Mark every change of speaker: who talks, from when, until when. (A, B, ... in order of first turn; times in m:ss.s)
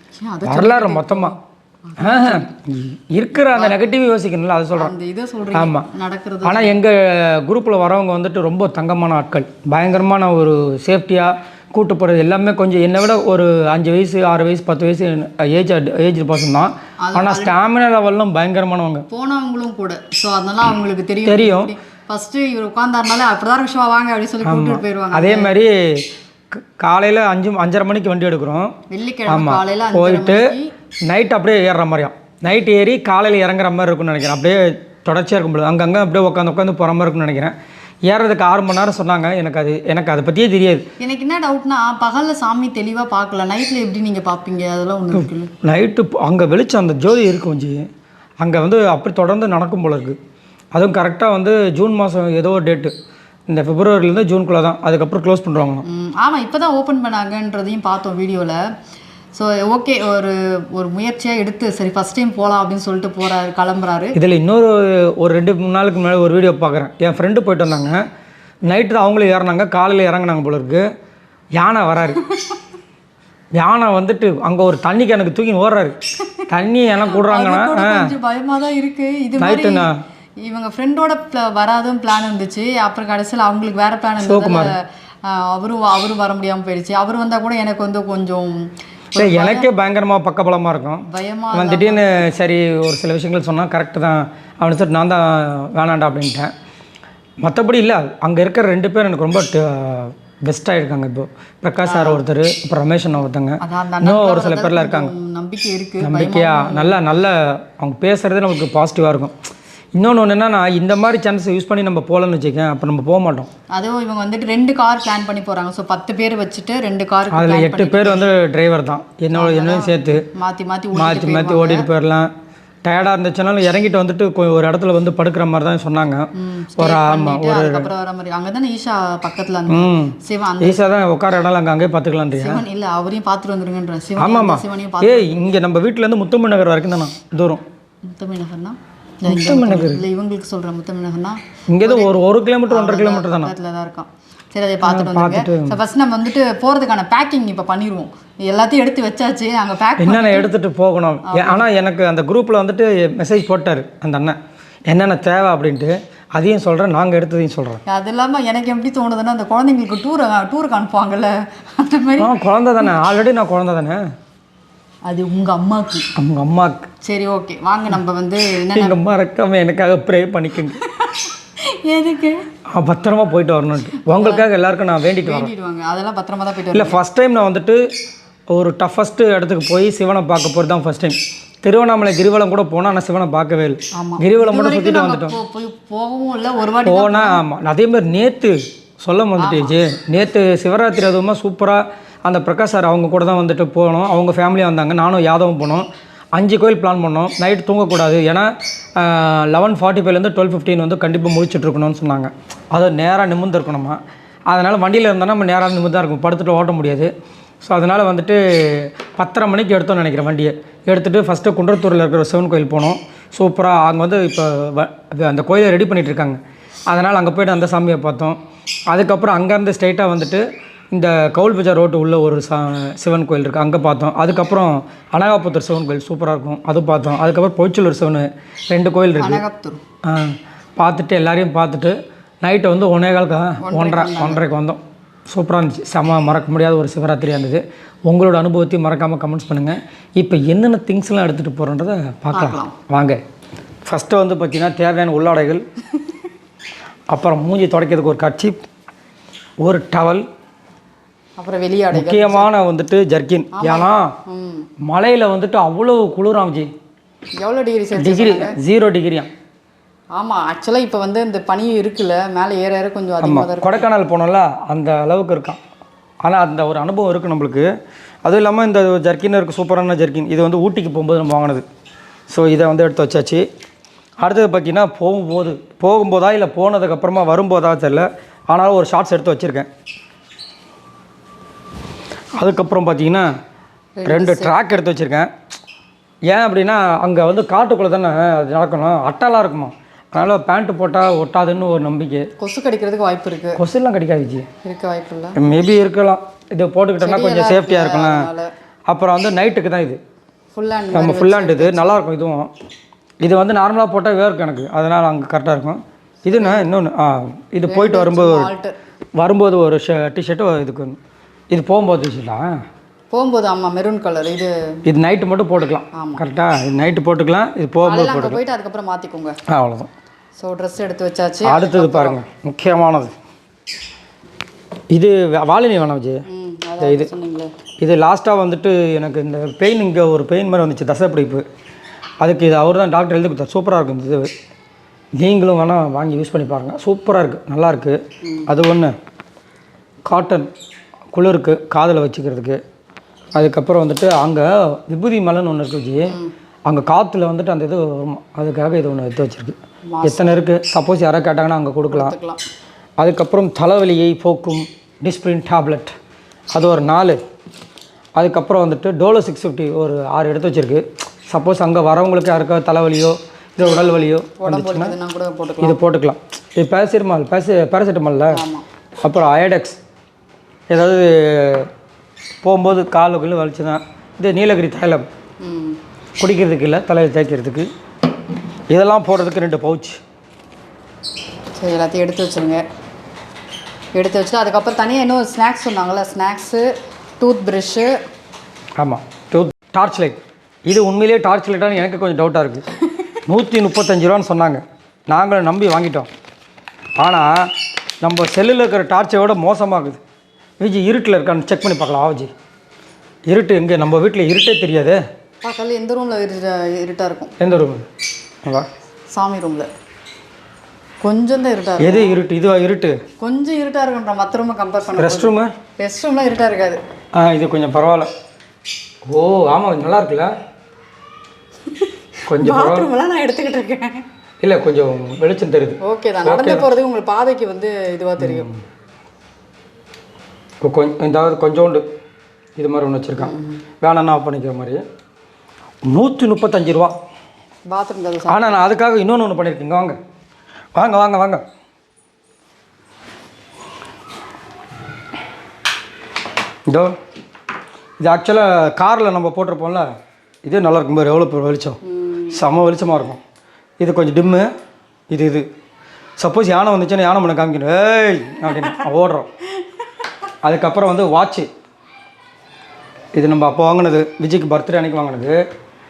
0:00.2-0:02.5 A
0:00.4-0:01.4 B
0:02.0-0:04.9 B
0:03.5-0:03.9 A
0:04.8-0:06.8 A
0:05.5-0:05.9 B
0:06.4-0:19.0 B
0:17.0-0:17.5 A
0:19.1-0:25.5 A
0:21.2-0:21.7 B
0:24.4-0:28.7 B
0:28.9-0:30.7 A
0:29.3-0:30.5 B
0:31.1-0:37.5 B
0:38.0-0:40.8 B
0:41.0-0:45.5 A
0:45.1-0:47.8 B
0:48.4-0:50.2 B
0:50.7-0:52.9 B
0:53.5-0:55.8 B
0:55.8-0:58.6 A
0:59.3-1:04.2 A
1:04.1-1:08.0 B
1:08.7-1:10.8 B
1:11.6-1:12.2 B
1:13.6-1:16.0 B
1:16.5-1:18.1 B
1:17.0-1:19.9 A
1:19.4-1:20.0 B
1:20.4-1:29.7 A
1:24.2-1:24.7 B
1:29.1-1:36.5 B
1:31.1-1:32.3 A
1:37.4-1:45.1 B
1:41.8-1:42.2 A
1:43.6-1:47.0 A
1:46.0-1:49.3 B
1:49.9-1:53.5 B
1:53.7-1:58.2 A
1:57.3-2:00.2 B
1:59.3-2:01.8 A
2:00.9-2:02.3 B
2:02.8-2:07.9 B
2:06.4-2:10.8 A
2:09.7-2:12.6 B
2:12.4-2:15.5 A
2:14.2-2:17.6 B
2:18.0-2:22.1 A
2:19.3-2:20.0 B
2:21.7-2:23.5 B
2:22.7-2:30.5 A
2:24.8-2:25.8 B
2:30.0-2:34.4 B
2:31.2-2:31.7 A
2:34.9-2:37.8 B
2:37.9-2:42.3 A
2:42.2-2:44.0 B
2:45.0-2:46.1 A
2:46.2-2:46.8 B
2:47.0-2:49.0 A
2:48.7-2:50.8 B
2:50.8-2:52.4 A
2:52.7-2:55.5 B
2:54.0-2:54.4 A
2:55.2-2:57.0 A
2:56.7-2:57.8 B
2:58.5-3:05.4 B
3:03.9-3:07.4 A
3:06.8-3:27.1 B
3:09.4-3:09.7 A
3:27.6-3:38.4 B
3:38.9-3:49.4 B
3:49.2-3:49.8 A
3:50.0-4:03.2 B
3:53.6-3:54.4 A
4:02.3-4:02.7 A
4:03.8-4:05.6 B
4:07.1-4:08.6 B
4:09.6-4:10.2 B
4:11.4-4:12.5 A
4:11.9-4:14.1 B
4:13.5-4:14.7 A
4:14.8-4:16.7 B
4:17.4-4:18.6 A
4:18.0-4:19.3 B
4:20.1-4:23.8 A
4:23.2-4:25.6 B
4:26.2-4:27.7 B
4:28.2-4:31.6 B
4:32.3-4:33.4 B
4:34.2-4:39.7 B
4:42.4-4:43.3 B
4:44.0-4:44.5 A
4:44.0-4:45.3 B
4:46.3-4:52.3 B
4:52.4-4:53.6 A
4:53.6-4:54.5 B
4:54.6-4:55.4 A
4:55.3-4:58.3 B
4:57.0-4:58.5 A
4:58.9-5:00.0 B
5:00.5-5:01.9 A
5:00.9-5:02.5 B
5:03.2-5:08.5 B
5:06.3-5:06.7 A
5:07.7-5:08.7 A
5:09.2-5:11.0 B
5:11.5-5:12.5 B
5:13.1-5:14.5 A
5:14.8-5:18.4 B
5:15.9-5:16.2 A
5:17.8-5:19.4 A
5:19.5-5:19.9 B
5:20.4-5:22.2 A
5:21.4-5:23.1 B
5:24.9-5:26.2 B
5:26.3-5:27.5 A
5:26.8-5:27.1 B
5:27.8-5:31.4 B
5:32.2-5:34.3 B
5:35.2-5:38.9 B
5:38.2-5:38.5 A
5:40.0-5:40.5 B
5:41.1-5:42.6 B
5:43.3-5:46.1 B
5:46.1-5:46.3 A
5:46.6-5:52.1 B
5:49.9-5:50.4 A
5:51.9-5:52.4 A
5:53.0-5:55.9 B
5:56.5-5:57.2 B
5:58.2-6:04.9 B
6:03.6-6:05.8 A
6:05.6-6:08.4 B
6:08.3-6:08.6 A
6:09.0-6:09.8 B
6:10.7-6:11.7 B
6:12.4-6:15.0 B
6:15.4-6:15.8 A
6:16.2-6:17.7 B
6:18.7-6:20.0 B
6:21.6-6:22.6 A
6:23.9-6:27.9 A
6:28.8-6:32.6 B
6:33.2-6:36.1 B
6:37.0-6:37.5 B
6:38.0-6:40.0 B
6:40.6-6:42.3 B
6:43.3-6:45.0 B
6:45.4-6:47.3 A
6:47.4-6:47.8 B
6:49.1-6:49.7 A
6:51.0-6:52.2 A
6:51.8-6:53.0 B
6:53.2-6:56.8 A
6:55.0-6:55.5 B
6:57.1-6:58.1 B
6:59.1-7:00.3 B
7:01.7-7:04.0 A
7:02.3-7:02.9 B
7:04.4-7:06.6 B
7:05.8-7:08.5 A
7:08.2-7:08.6 B
7:10.6-7:11.8 B
7:12.6-7:14.8 B
7:13.2-7:13.6 A
7:15.9-7:17.0 B
7:17.7-7:18.6 A
7:18.2-7:20.0 B
7:20.7-7:21.4 B
7:28.0-7:29.9 B
7:30.4-7:31.8 B
7:31.9-7:32.4 A
7:32.3-7:33.2 B
7:33.8-7:34.5 B
7:35.1-7:35.4 B
7:36.2-7:39.3 B
7:40.4-7:41.5 B
7:43.1-7:45.4 B